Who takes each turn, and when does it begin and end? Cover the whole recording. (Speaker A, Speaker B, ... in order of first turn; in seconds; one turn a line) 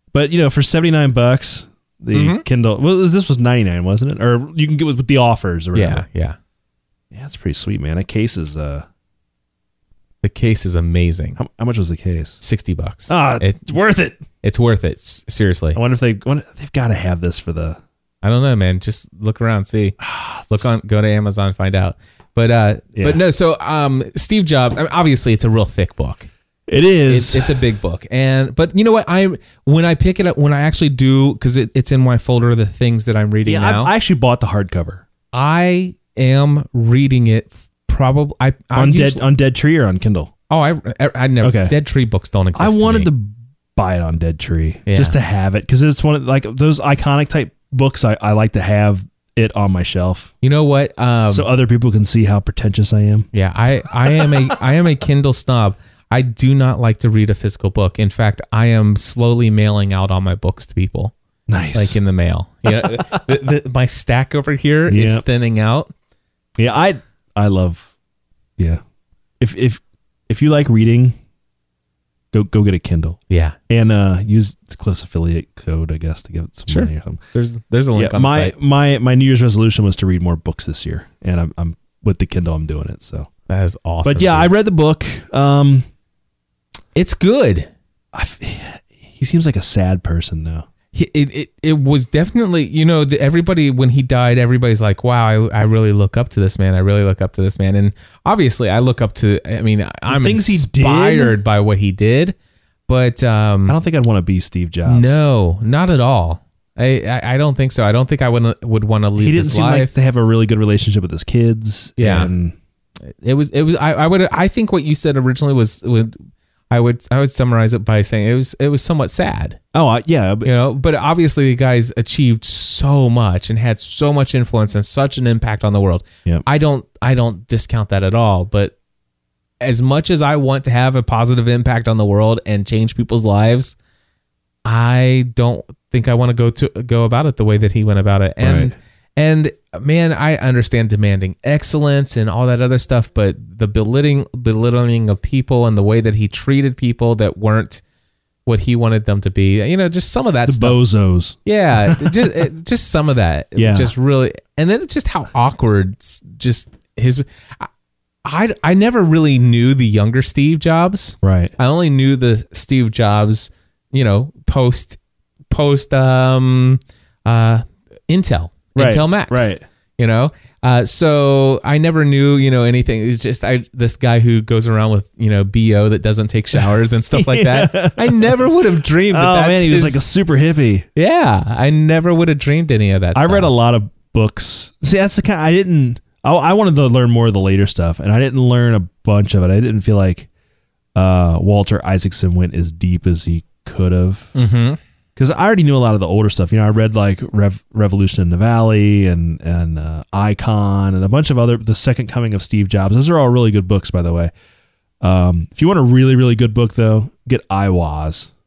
Speaker A: 0.1-6.0
Speaker B: 2.1-2.4
Speaker B: 5.7-6.4
Speaker A: 7.1-8.9
Speaker B: 10.2-11.4
Speaker A: 11.4-12.4
Speaker B: 12.4-13.6
Speaker A: 13.1-14.2
Speaker B: 14.4-15.8
Speaker A: 15.7-17.8
Speaker B: 18.2-26.3
Speaker A: 20.0-20.7
Speaker A: 22.9-23.2
Speaker A: 26.7-27.6
Speaker B: 27.1-33.9
Speaker A: 33.5-35.0
Speaker B: 35.3-39.2
Speaker A: 38.7-40.3
Speaker B: 40.5-43.1
Speaker A: 41.4-41.7
Speaker A: 42.5-50.3
Speaker B: 44.9-45.2
Speaker B: 50.4-51.5
Speaker A: 51.3-53.3
Speaker B: 53.3-61.1
Speaker A: 54.0-54.5
Speaker A: 61.5-62.0
Speaker B: 61.7-65.9
Speaker A: 62.7-63.2
Speaker A: 64.9-65.2
Speaker A: 66.6-67.9
Speaker A: 69.4-71.2
Speaker A: 72.3-77.2
Speaker B: 73.3-73.5
Speaker B: 76.7-78.5
Speaker A: 78.0-83.3
Speaker B: 83.5-84.5
Speaker A: 84.0-85.9
Speaker B: 87.0-87.7
Speaker A: 88.1-90.7
Speaker B: 90.9-102.3
Speaker A: 100.1-101.4
Speaker B: 102.9-103.8
Speaker A: 103.7-105.1
Speaker B: 104.9-109.9
Speaker A: 109.2-112.5
Speaker B: 112.0-112.3
Speaker B: 113.1-116.2
Speaker B: 116.7-119.6
Speaker A: 119.7-120.5
Speaker B: 120.4-128.7
Speaker B: 129.6-133.8
Speaker B: 134.6-147.8
Speaker A: 138.4-138.7
Speaker B: 148.4-150.8
Speaker A: 150.4-152.3
Speaker B: 151.4-157.7
Speaker A: 153.6-153.9
Speaker B: 158.2-165.0
Speaker A: 161.2-161.5
Speaker B: 165.5-180.1
Speaker A: 168.7-169.6
Speaker A: 177.1-178.4
Speaker A: 179.1-180.9
Speaker B: 180.9-183.5
Speaker A: 183.1-190.3
Speaker A: 190.9-194.3
Speaker B: 194.3-194.8
Speaker A: 195.2-204.3
Speaker A: 205.0-208.3